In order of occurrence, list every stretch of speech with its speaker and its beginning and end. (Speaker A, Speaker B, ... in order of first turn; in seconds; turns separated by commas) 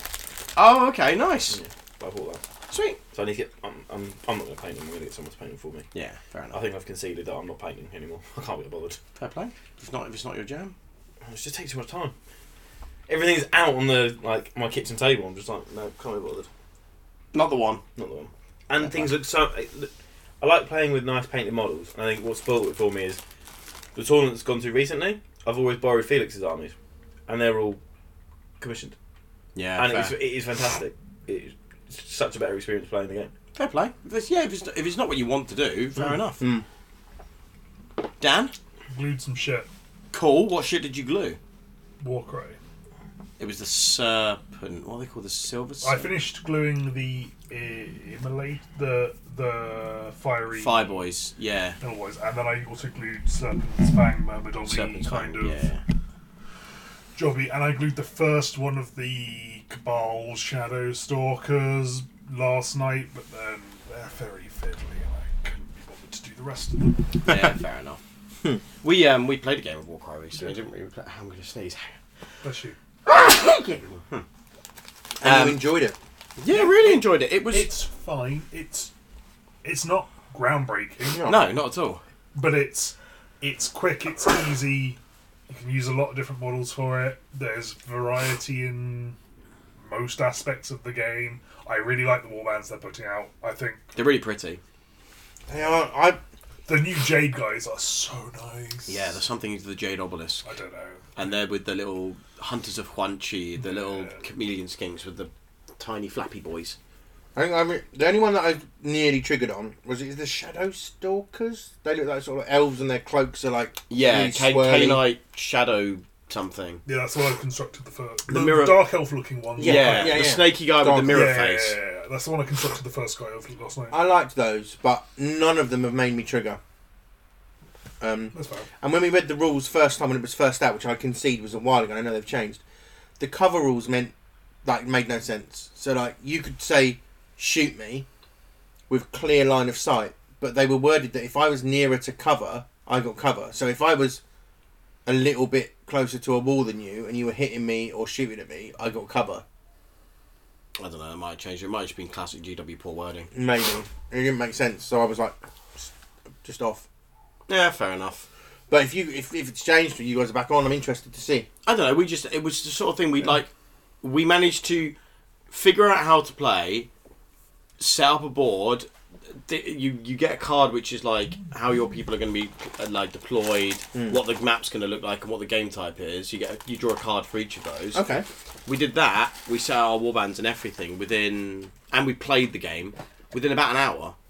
Speaker A: 0.6-1.6, Speaker B: 1.5-2.4, Speaker A: 2.7-3.0, Speaker B: 3.1-5.9, Speaker A: 5.9-6.6, Speaker B: 6.5-9.0, Speaker A: 9.2-10.7, Speaker B: 11.2-12.1, Speaker B: 13.1-16.5, Speaker A: 17.3-17.8, Speaker B: 18.0-19.9, Speaker A: 18.8-19.1, Speaker B: 20.4-23.2, Speaker B: 23.9-26.7, Speaker B: 27.3-27.8, Speaker B: 28.6-28.9, Speaker A: 29.5-30.1, Speaker B: 29.8-33.3, Speaker A: 33.5-36.4, Speaker C: 36.4-36.6, Speaker A: 38.2-38.5, Speaker D: 38.9-39.7, Speaker A: 40.1-41.4, Speaker D: 42.0-42.6, Speaker A: 43.4-46.1, Speaker D: 45.8-51.0, Speaker A: 50.5-51.8, Speaker D: 51.8-55.6, Speaker A: 54.6-55.8, Speaker D: 57.1-67.0, Speaker A: 67.2-68.0, Speaker A: 68.8-71.9, Speaker D: 72.4-72.8, Speaker C: 73.3-73.8, Speaker A: 73.9-74.2, Speaker C: 75.2-76.0, Speaker A: 75.2-75.6, Speaker A: 76.4-77.7, Speaker D: 76.5-78.9, Speaker D: 79.6-81.3, Speaker C: 81.0-81.4, Speaker A: 81.2-82.0, Speaker D: 82.3-89.2, Speaker D: 89.8-93.9, Speaker A: 93.9-94.6, Speaker C: 95.5-96.2, Speaker D: 96.7-99.1, Speaker A: 98.9-100.5, Speaker D: 100.4-101.3, Speaker A: 101.2-106.8, Speaker D: 103.6-104.2, Speaker C: 107.3-115.0, Speaker A: 113.9-116.8, Speaker D: 116.8-120.3, Speaker A: 118.3-118.9, Speaker C: 119.6-121.3, Speaker A: 119.6-121.8, Speaker D: 121.1-124.0, Speaker C: 123.9-126.6, Speaker C: 128.0-132.6, Speaker D: 128.3-128.7, Speaker C: 133.2-134.1, Speaker C: 134.6-138.1, Speaker C: 138.9-144.2, Speaker C: 145.1-149.4, Speaker A: 150.8-153.3, Speaker C: 153.3-155.9, Speaker C: 156.4-156.8, Speaker A: 157.5-158.3, Speaker C: 158.7-161.5, Speaker A: 161.6-163.5, Speaker A: 164.0-164.9, Speaker A: 165.5-166.9, Speaker A: 167.8-178.0, Speaker C: 173.9-174.2, Speaker C: 177.9-178.2, Speaker A: 178.7-184.1